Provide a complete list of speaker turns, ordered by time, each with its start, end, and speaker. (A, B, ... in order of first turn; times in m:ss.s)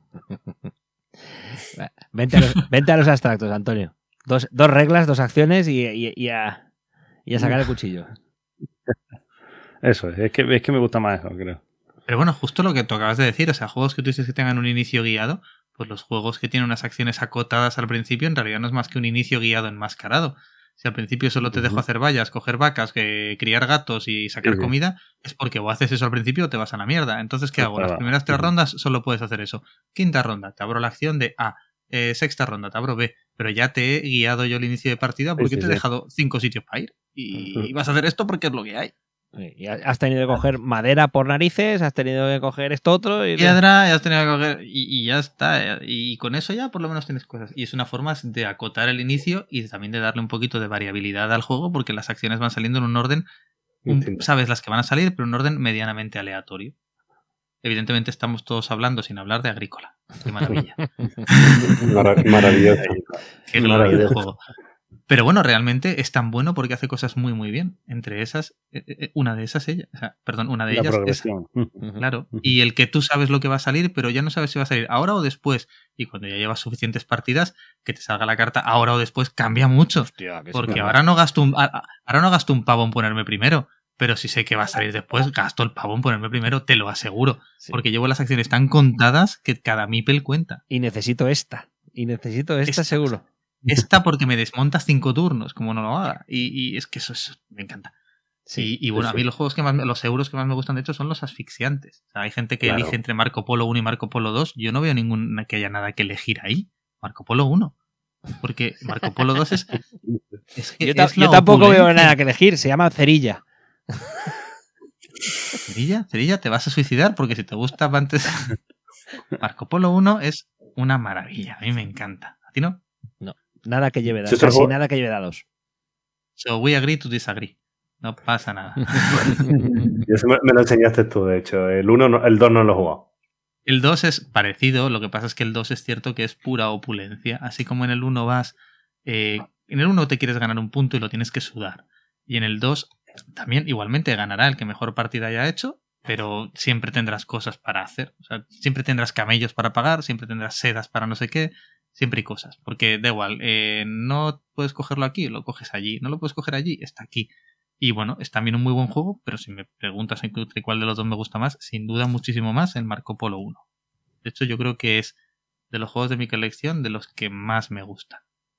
0:01.7-0:06.6 A
0:07.3-0:08.1 A
0:09.8-0:11.6 B
0:12.1-0:38.9 C
0:21.5-0:21.8 B
0:24.4-0:24.7 B
0:27.6-0:28.5 B
0:35.4-0:35.8 B
0:39.4-0:43.6 A
0:43.4-0:53.2 C
0:53.8-0:54.2 D
0:53.9-0:56.7 C
0:57.6-1:01.4 C
1:01.6-1:04.1 D
1:03.5-1:04.4 C
1:05.1-1:11.3 C
1:10.7-1:11.8 B
1:12.0-1:30.6 C
1:20.1-1:21.0 A
1:20.7-1:20.9 D
1:30.7-1:33.2 A
1:32.7-1:33.1 C
1:33.6-1:37.9 C
1:38.6-1:47.7 C
1:42.6-1:42.9 D
1:48.4-1:49.8 C
1:50.6-1:52.1 C
1:50.8-1:53.4 A
1:55.7-1:58.6 C
1:59.4-2:02.8 C
2:03.2-2:05.4 A
2:04.3-2:04.7 D
2:06.4-2:09.6 C
2:10.1-2:13.0 D
2:13.7-2:37.3 C
2:37.8-2:43.6 C
2:44.2-2:45.2 C
2:45.7-2:48.2 C